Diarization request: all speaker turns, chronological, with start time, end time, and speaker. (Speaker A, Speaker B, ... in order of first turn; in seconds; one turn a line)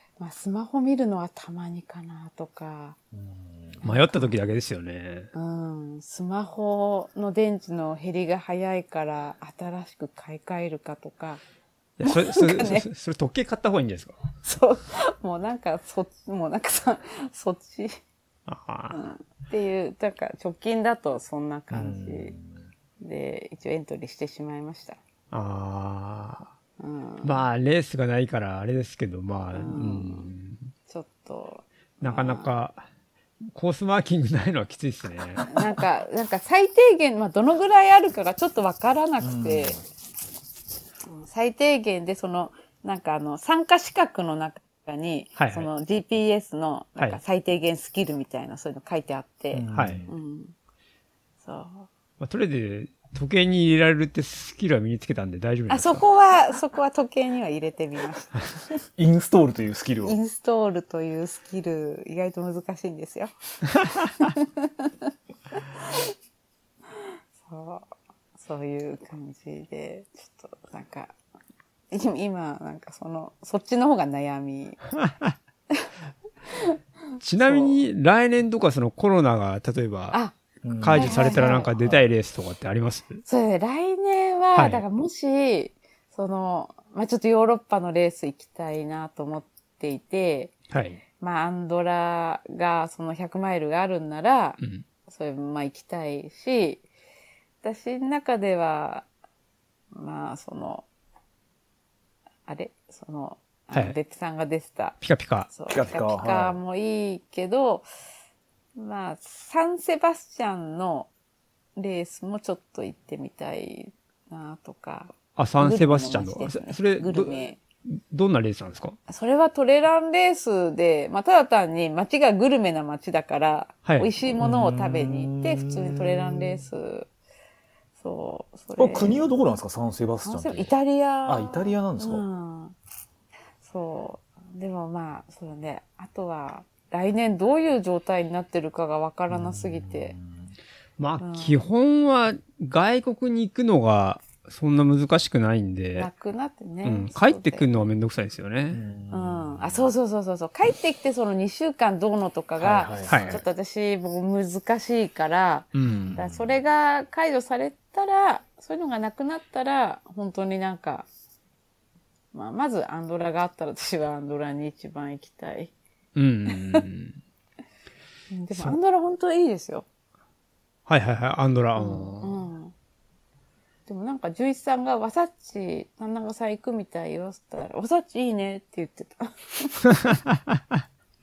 Speaker A: 0.2-3.0
Speaker B: 3.1-3.8
Speaker A: 3.8-4.3
Speaker C: 3.8-5.3
Speaker A: 5.3-11.4
Speaker C: 12.0-14.2
Speaker A: 12.0-12.8
Speaker A: 14.4-18.0
Speaker C: 18.5-19.0
Speaker A: 18.9-22.4
Speaker B: 21.7-22.6
Speaker A: 23.0-25.0
Speaker C: 25.3-26.5
Speaker A: 26.8-27.4
Speaker C: 27.2-30.7
Speaker A: 29.5-30.3
Speaker A: 30.9-32.5
Speaker C: 32.0-32.8
Speaker C: 33.5-35.6
Speaker A: 35.5-39.8
Speaker B: 39.2-39.8
Speaker A: 41.1-50.5
Speaker C: 45.4-45.7
Speaker B: 49.5-50.1
Speaker C: 49.7-50.0
Speaker A: 51.4-51.9
Speaker C: 52.2-56.0
Speaker A: 55.7-58.5
Speaker B: 59.0-60.1
Speaker A: 60.0-63.3
Speaker A: 64.2-66.1
Speaker A: 67.4-71.1
Speaker A: 71.9-74.8
Speaker C: 75.0-75.3
Speaker C: 77.2-80.2
Speaker A: 77.4-77.8
Speaker B: 80.6-82.0
Speaker C: 80.8-83.2
Speaker A: 80.9-81.7
Speaker A: 83.2-90.5
Speaker C: 84.5-84.8
Speaker C: 90.7-91.0
Speaker A: 91.2-96.8
Speaker C: 94.6-94.8
Speaker A: 97.6-99.0
Speaker A: 99.9-100.8
Speaker A: 102.5-105.0
Speaker C: 105.0-105.5
Speaker A: 105.5-107.8
Speaker B: 105.7-106.6
Speaker A: 108.8-111.1
Speaker A: 111.8-117.6
Speaker C: 115.3-119.0
Speaker A: 119.1-127.1
Speaker C: 123.8-124.1
Speaker B: 124.4-126.6
Speaker A: 128.0-129.2
Speaker B: 128.8-130.7
Speaker A: 130.2-132.7
Speaker B: 131.2-132.2
Speaker A: 133.6-140.2
Speaker B: 139.3-140.5
Speaker C: 141.0-146.1
Speaker A: 141.2-141.6
Speaker A: 146.0-147.7
Speaker C: 146.8-148.8
Speaker B: 148.7-149.9
Speaker A: 149.1-161.1
Speaker B: 152.6-153.4
Speaker C: 153.1-153.4
Speaker C: 155.7-156.2
Speaker B: 156.1-156.6
Speaker A: 162.3-165.7
Speaker C: 166.1-167.2
Speaker A: 166.5-166.8
Speaker A: 168.3-169.8
Speaker C: 170.9-172.4
Speaker A: 171.8-172.7
Speaker A: 173.9-180.0
Speaker C: 179.9-180.8